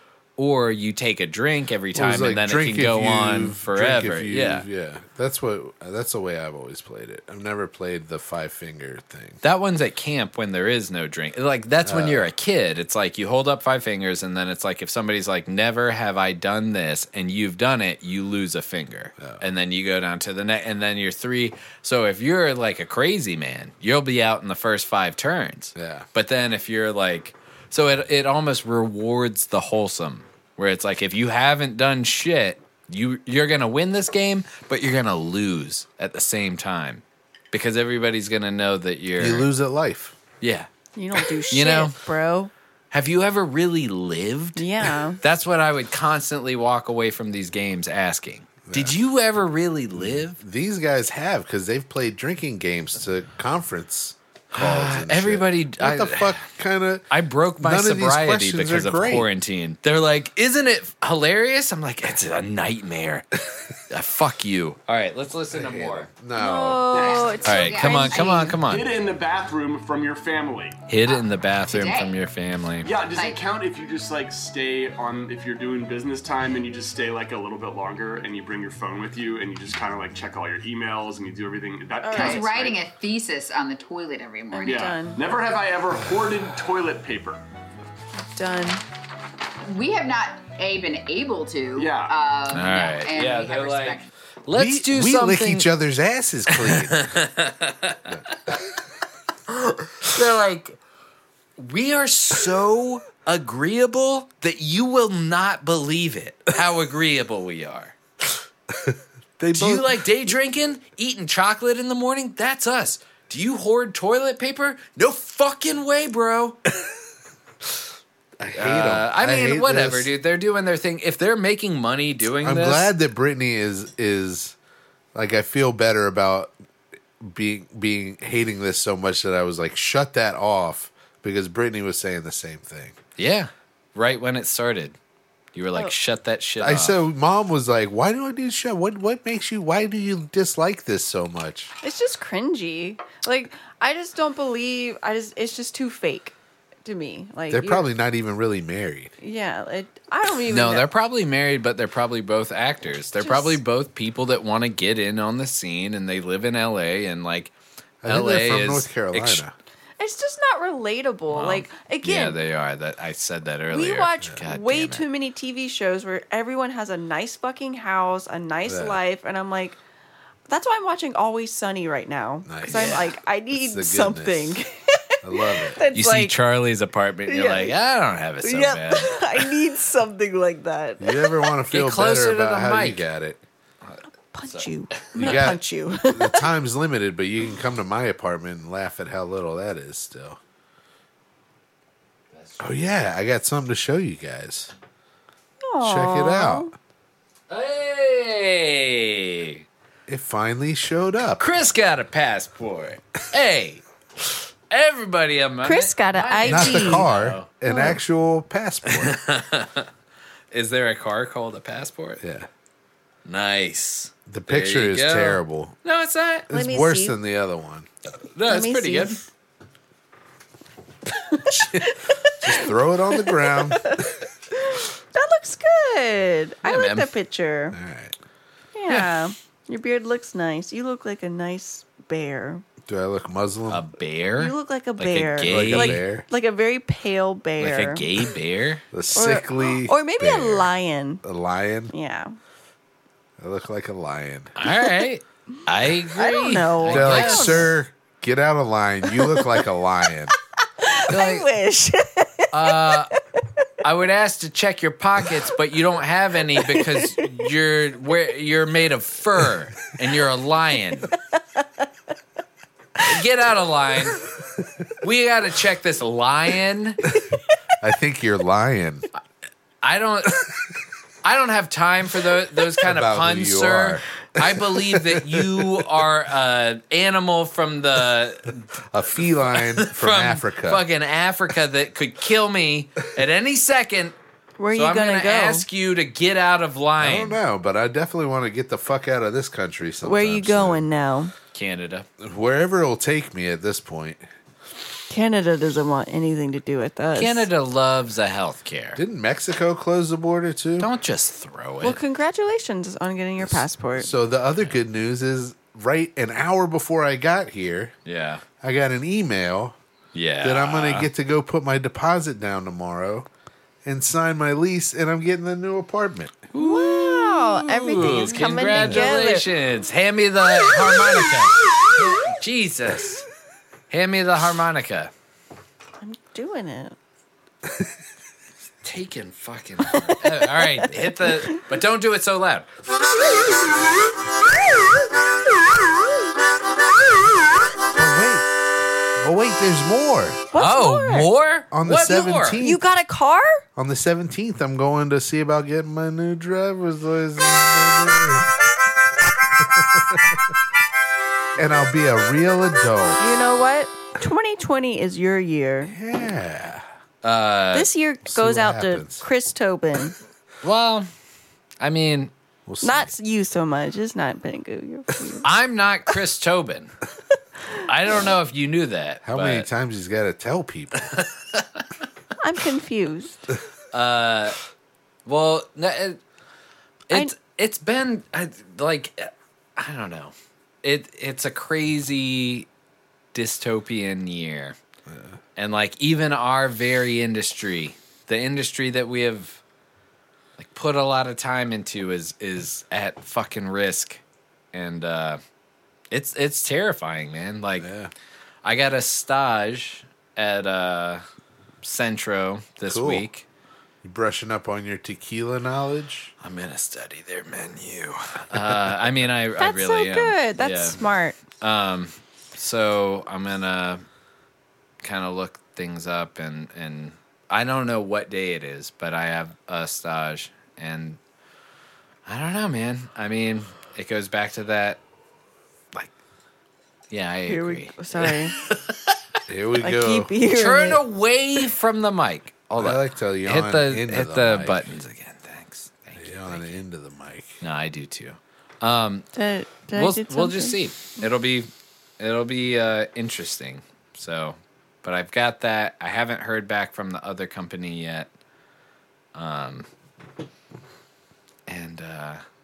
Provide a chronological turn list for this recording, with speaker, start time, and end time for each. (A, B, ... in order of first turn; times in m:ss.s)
0:00.4-0:04.6 A
0:01.9-0:09.4 B
0:09.4-0:39.5 A
0:11.8-0:12.3 B
0:25.8-0:26.0 B
0:39.2-0:40.2 B
0:40.4-0:40.7 A
0:40.9-0:42.5 C
0:41.5-0:41.9 A
0:42.9-0:50.4 A
0:44.6-0:45.2 C
0:48.6-0:49.0 B
0:50.0-0:57.0 B
0:54.5-0:56.5 A
0:57.1-1:06.1 A
0:57.6-0:59.3 B
1:05.5-1:06.9 B
1:06.3-1:08.6 C
1:06.9-1:07.3 D
1:06.9-1:08.6 E
1:07.4-1:08.9 A
1:08.6-1:10.8 D
1:10.9-1:12.9 A
1:11.0-1:12.2 E
1:12.8-1:22.8 D
1:13.1-1:13.4 E
1:22.0-1:22.5 C
1:22.1-1:24.9 E
1:24.5-1:25.2 C
1:24.6-1:27.4 D
1:28.3-1:28.8 C
1:29.6-1:34.1 E
1:31.7-1:32.1 D
1:32.5-1:35.7 A
1:34.5-1:37.1 B
1:36.5-1:38.6 A
1:40.0-1:40.8 A
1:41.6-1:47.9 A
1:48.9-1:50.0 B
1:49.5-1:56.6 A
1:58.4-2:00.1 B
1:58.5-2:02.9 A
2:02.4-2:04.5 B
2:05.1-2:06.5 B
2:07.2-2:13.0 B
2:13.2-2:15.0 A
2:15.5-2:17.0 A
2:16.6-2:21.7 B
2:21.8-2:27.9 C
2:27.5-2:29.1 B
2:29.2-2:30.9 C
2:30.5-2:37.5 A
2:33.2-2:33.6 C
2:38.0-2:39.5 B
2:38.0-2:39.4 A
2:40.0-2:42.4 C
2:41.3-2:45.0 A
2:43.7-2:49.8 C
2:48.6-2:49.0 B
2:50.5-2:56.4 C
2:52.4-2:54.6 B
2:52.6-2:53.1 A
2:55.2-2:55.8 B
2:55.9-2:59.5 A
2:57.3-2:57.8 C
2:58.4-3:01.5 C
3:01.0-3:03.4 B
3:01.7-3:03.0 A
3:03.8-3:05.5 A
3:04.3-3:06.5 C
3:05.1-3:10.4 B
3:12.3-3:12.8 A
3:12.6-3:14.7 B
3:15.6-3:16.7 C
3:15.8-3:16.7 B
3:17.5-3:19.6 A
3:20.1-3:21.4 B
3:21.4-3:23.8 A
3:24.7-3:27.5 A
3:25.6-3:27.1 C
3:26.4-3:29.2 B
3:27.7-3:28.0 C
3:28.9-3:29.9 A
3:30.5-3:32.2 A
3:32.2-3:32.5 B
3:33.2-3:36.5 A
3:34.3-3:35.7 B
3:36.5-3:37.9 B
3:36.5-3:37.2 C
3:38.3-3:39.2 A
3:38.5-3:39.2 C
3:41.3-3:47.8 C
3:42.4-3:43.9 B
3:46.6-3:47.1 A
3:47.7-3:48.1 B
3:48.7-3:52.6 C
3:52.8-3:53.8 B
3:53.7-3:56.0 A
3:54.4-3:58.0 C
3:55.4-3:56.2 B
3:57.6-3:58.8 A
3:58.9-4:01.9 B
3:59.1-4:01.2 C
4:01.9-4:02.4 C
4:03.4-4:04.5 B
4:04.6-4:07.7 A
4:06.2-4:07.7 C
4:06.8-4:10.3 B
4:09.1-4:09.6 C
4:10.8-4:13.4 C
4:11.1-4:11.5 A
4:12.5-4:13.1 A
4:13.8-4:21.1 A
4:16.6-4:17.2 C
4:23.0-4:24.2 A
4:25.0-4:27.0 A
4:27.8-4:29.0 B
4:29.8-4:30.5 A
4:31.2-4:44.1 A
4:32.8-4:35.4 B
4:38.9-4:40.8 B
4:44.6-4:45.6 C
4:44.7-4:47.4 A
4:47.0-4:50.9 B
4:50.0-4:51.3 C
4:51.5-4:52.1 A
4:52.2-4:54.2 B
4:55.1-4:57.5 C
4:57.1-4:59.0 A
4:58.9-5:00.9 B
5:00.8-5:02.0 A
5:01.8-5:04.1 C
5:03.4-5:07.9 B
5:08.0-5:08.4 A
5:08.6-5:09.8 B
5:10.1-5:11.1 A
5:10.4-5:13.3 B
5:13.8-5:16.3 B
5:16.5-5:23.2 A
5:16.5-5:19.5 C
5:18.7-5:19.1 B
5:23.9-5:25.1 A
5:26.0-5:27.0 C
5:28.8-5:32.7 A
5:37.9-5:38.5 B
5:39.2-5:40.4 B
5:40.5-5:41.3 C
5:40.6-5:42.6 A
5:41.7-5:42.8 B
5:42.6-5:43.6 C
5:43.8-5:48.5 B
5:49.6-5:50.4 B
5:51.6-5:53.2 B
5:53.2-5:55.9 C
5:55.8-5:56.8 B
5:57.2-5:57.9 A
5:57.7-6:00.1 C
5:58.2-5:59.2 B
6:00.6-6:01.1 A
6:01.8-6:02.3 A
6:02.7-6:03.1 B
6:02.8-6:05.5 C
6:05.4-6:06.9 A
6:07.9-6:09.7 A
6:09.2-6:11.0 B
6:11.0-6:11.6 A
6:12.4-6:13.4 C
6:13.9-6:14.6 A
6:15.2-6:16.2 A
6:17.1-6:22.7 A
6:23.3-6:24.8 A
6:25.1-6:25.4 B
6:25.6-6:29.6 A
6:30.6-6:34.2 A
6:34.7-6:35.4 A
6:36.1-6:37.9 A
6:37.8-6:38.1 B
6:38.6-6:41.2 A
6:41.8-6:43.4 A
6:42.8-6:43.2 B
6:44.0-6:46.3 B
6:46.4-6:51.0 A
6:49.6-6:51.4 C
6:51.6-6:54.0 A
6:55.0-7:01.2 A
7:02.2-7:05.0 A
7:07.1-7:09.2 A
7:07.5-7:08.5 C
7:09.5-7:10.3 B
7:09.8-7:11.0 C
7:10.5-7:16.7 A
7:12.8-7:14.8 B
7:16.1-7:17.6 B
7:17.6-7:19.2 A
7:19.3-7:20.8 C
7:19.9-7:28.3 A
7:29.3-7:29.9 A
7:31.7-7:32.4 A